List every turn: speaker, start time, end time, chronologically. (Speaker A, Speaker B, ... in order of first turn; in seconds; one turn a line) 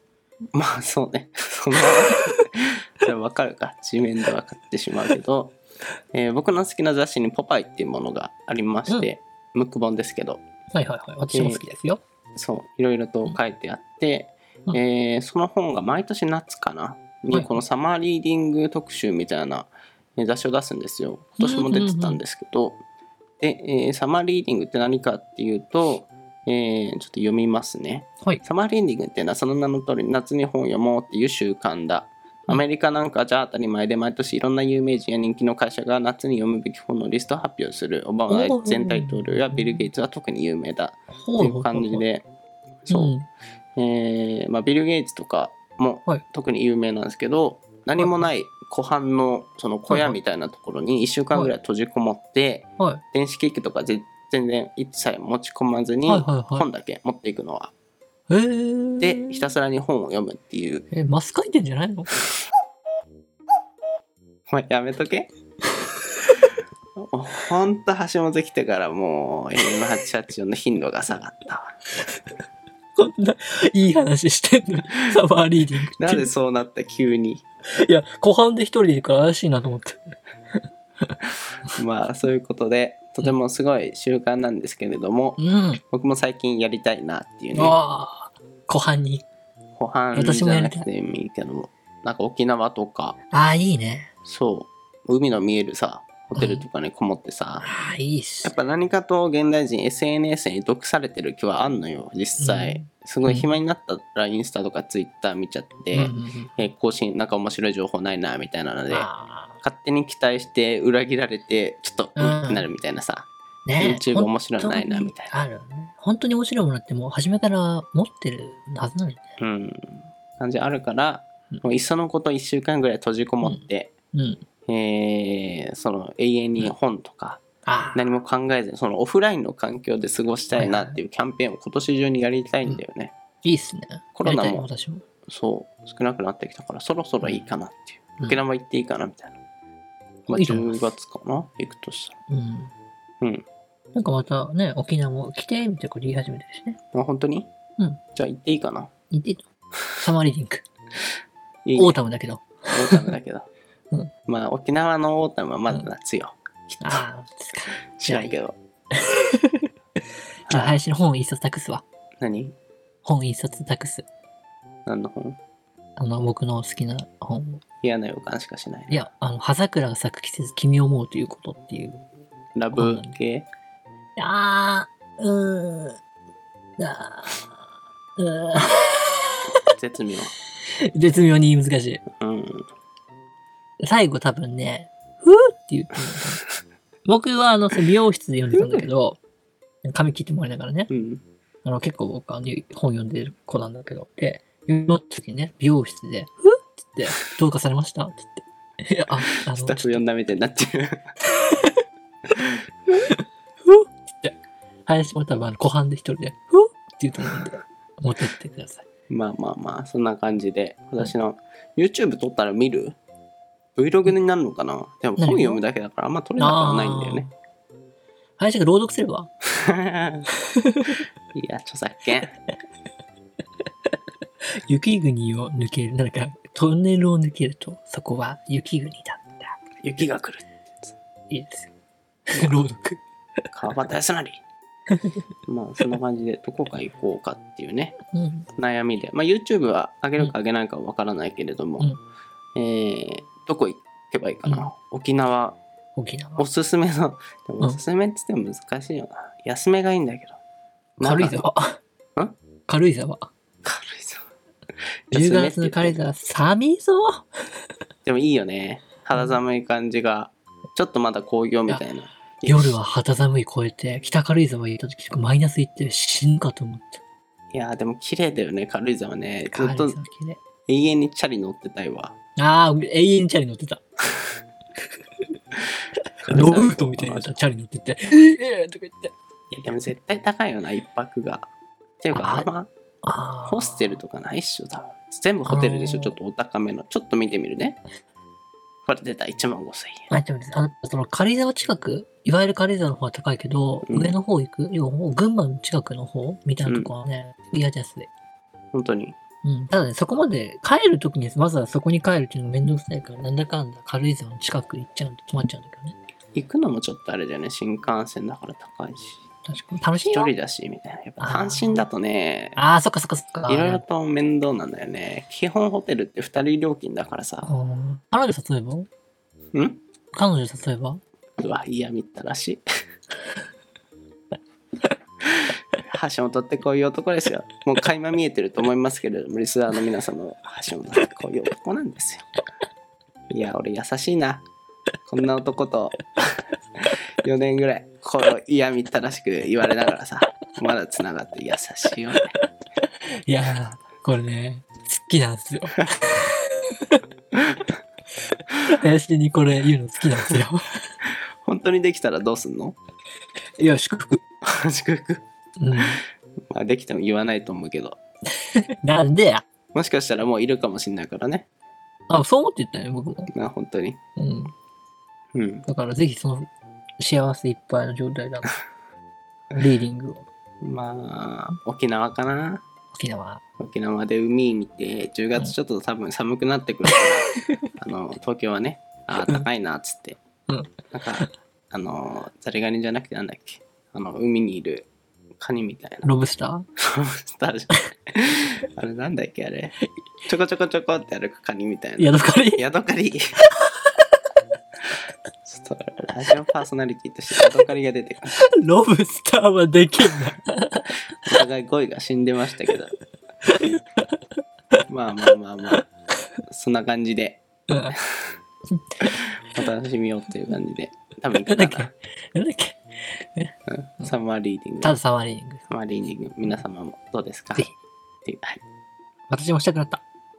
Speaker A: 0.5-5.6
Speaker A: 6.1-10.4
Speaker B: 10.7-12.0
Speaker A: 11.3-11.6
Speaker A: 12.3-22.8
Speaker B: 21.4-22.2
Speaker A: 23.4-42.3
Speaker B: 38.3-39.9
Speaker B: 41.1-42.0
Speaker A: 42.8-43.1
Speaker B: 42.9-43.2
Speaker A: 43.8-57.7
Speaker B: 48.0-48.3
Speaker B: 49.9-50.2
Speaker B: 56.0-56.6
Speaker B: 58.3-59.5
Speaker A: 59.0-60.9
Speaker B: 60.9-62.2
Speaker A: 64.5-65.3
Speaker A: 67.0-71.7
Speaker B: 72.9-76.3
Speaker A: 76.0-77.4
Speaker B: 77.8-80.1
Speaker A: 81.8-87.8
Speaker B: 85.4-85.8
Speaker B: 87.5-89.2
Speaker A: 89.8-93.2
Speaker B: 90.1-90.9
Speaker B: 93.3-94.1
Speaker A: 94.2-97.7
Speaker B: 96.3-96.7
Speaker B: 97.6-98.5
Speaker A: 98.4-109.1
Speaker B: 102.4-103.5
Speaker B: 105.9-106.7
Speaker B: 108.9-109.5
Speaker A: 109.6-113.3
Speaker B: 112.2-112.7
Speaker B: 113.7-119.2
Speaker A: 113.8-115.3
Speaker A: 119.4-123.9
Speaker B: 123.4-124.4
Speaker A: 124.7-127.4
Speaker B: 127.7-128.0
Speaker A: 127.9-133.1
Speaker B: 130.5-131.0
Speaker B: 133.4-135.0
Speaker A: 134.1-134.7
Speaker A: 135.3-139.4
Speaker B: 137.2-137.5
Speaker A: 140.3-142.2
Speaker B: 140.3-140.9
Speaker B: 142.3-142.7
Speaker B: 143.9-146.8
Speaker A: 146.9-147.5
Speaker A: 148.1-148.9
Speaker B: 149.1-149.4
Speaker B: 150.0-150.6
Speaker A: 151.6-152.0
Speaker B: 151.8-153.1
Speaker A: 152.7-153.5
Speaker A: 154.3-157.0
Speaker B: 156.8-158.3
Speaker A: 158.0-158.6
Speaker B: 158.9-159.7
Speaker A: 160.5-160.8
Speaker B: 160.5-161.8
Speaker A: 162.2-162.5
Speaker B: 163.0-164.1
Speaker A: 164.8-165.4
Speaker B: 166.0-167.6
Speaker A: 167.8-169.0
Speaker B: 168.9-172.0
Speaker A: 172.6-173.5
Speaker B: 172.7-173.1
Speaker B: 174.2-176.0
Speaker B: 176.8-177.6
Speaker B: 178.2-179.4
Speaker A: 179.7-180.3
Speaker B: 180.8-182.0
Speaker A: 182.2-182.7
Speaker B: 183.8-186.4
Speaker B: 187.0-189.2
Speaker A: 188.6-188.8
Speaker B: 189.8-190.9
Speaker A: 190.9-191.2
Speaker B: 191.6-200.2
Speaker A: 199.5-201.1
Speaker B: 203.0-204.3
Speaker B: 204.8-208.8
Speaker A: 209.1-212.9
Speaker A: 213.8-217.3
Speaker B: 215.2-215.6
Speaker B: 216.4-217.3
Speaker B: 218.4-219.3
Speaker A: 219.5-220.2
Speaker B: 220.6-221.0
Speaker A: 221.3-222.3
Speaker B: 224.7-229.6
Speaker A: 229.8-230.9
Speaker B: 231.3-231.7
Speaker B: 232.3-233.0
Speaker A: 233.5-234.4
Speaker B: 234.9-235.2
Speaker A: 235.4-238.0
Speaker B: 238.1-238.5
Speaker A: 238.6-241.9
Speaker A: 242.6-245.6
Speaker B: 245.9-246.4
Speaker A: 246.4-250.4
Speaker A: 251.0-251.4
Speaker B: 251.0-251.8
Speaker B: 252.7-253.3
Speaker A: 253.6-254.2
Speaker A: 255.1-256.0
Speaker B: 255.1-257.3
Speaker A: 258.0-262.8
Speaker B: 262.4-267.0
Speaker A: 267.5-270.0
Speaker B: 269.5-270.4
Speaker A: 270.7-272.1
Speaker B: 272.4-273.8
Speaker A: 276.2-277.4
Speaker B: 276.2-279.1
Speaker A: 279.5-281.5
Speaker A: 282.0-282.7
Speaker B: 282.1-282.5
Speaker B: 283.0-284.0
Speaker A: 283.5-287.8
Speaker B: 285.4-286.1
Speaker A: 288.9-290.1
Speaker B: 290.1-298.1
Speaker A: 293.8-294.2
Speaker A: 296.6-296.9
Speaker A: 298.7-299.1
Speaker B: 299.4-306.0
Speaker A: 306.3-309.2
Speaker B: 309.4-310.3
Speaker A: 310.0-312.6
Speaker B: 311.2-311.9
Speaker B: 312.6-313.8
Speaker A: 313.5-317.5
Speaker B: 317.4-318.9
Speaker A: 319.5-319.8
Speaker B: 320.1-321.0
Speaker A: 321.4-322.6
Speaker A: 325.9-332.2
Speaker A: 333.3-334.4
Speaker A: 335.1-342.3
Speaker B: 343.2-347.0
Speaker B: 348.7-350.8
Speaker A: 351.1-352.8
Speaker B: 353.6-354.2
Speaker A: 354.4-355.2
Speaker B: 355.6-356.0
Speaker A: 356.5-358.0
Speaker B: 358.8-359.4
Speaker A: 359.7-361.5
Speaker B: 362.1-363.3
Speaker A: 363.3-364.0
Speaker B: 364.2-364.5
Speaker A: 365.3-365.6
Speaker B: 365.7-368.5
Speaker B: 369.5-370.2
Speaker A: 370.6-372.6
Speaker B: 372.9-373.4
Speaker A: 373.6-380.2
Speaker B: 380.5-381.3
Speaker A: 380.9-384.9
Speaker A: 385.4-386.1
Speaker B: 386.0-386.7
Speaker A: 386.8-389.8
Speaker A: 390.3-393.3
Speaker B: 392.0-392.6
Speaker A: 395.4-398.3
Speaker B: 398.3-400.9
Speaker A: 401.2-402.9
Speaker B: 403.4-403.8
Speaker A: 404.9-405.8
Speaker A: 406.5-407.4
Speaker B: 407.7-408.0
Speaker A: 407.9-408.3
Speaker B: 408.7-409.6
Speaker A: 409.5-411.9
Speaker B: 411.3-414.1
Speaker A: 413.7-415.0
Speaker B: 414.8-415.6
Speaker A: 415.7-417.7
Speaker A: 418.2-418.6
Speaker B: 419.3-420.0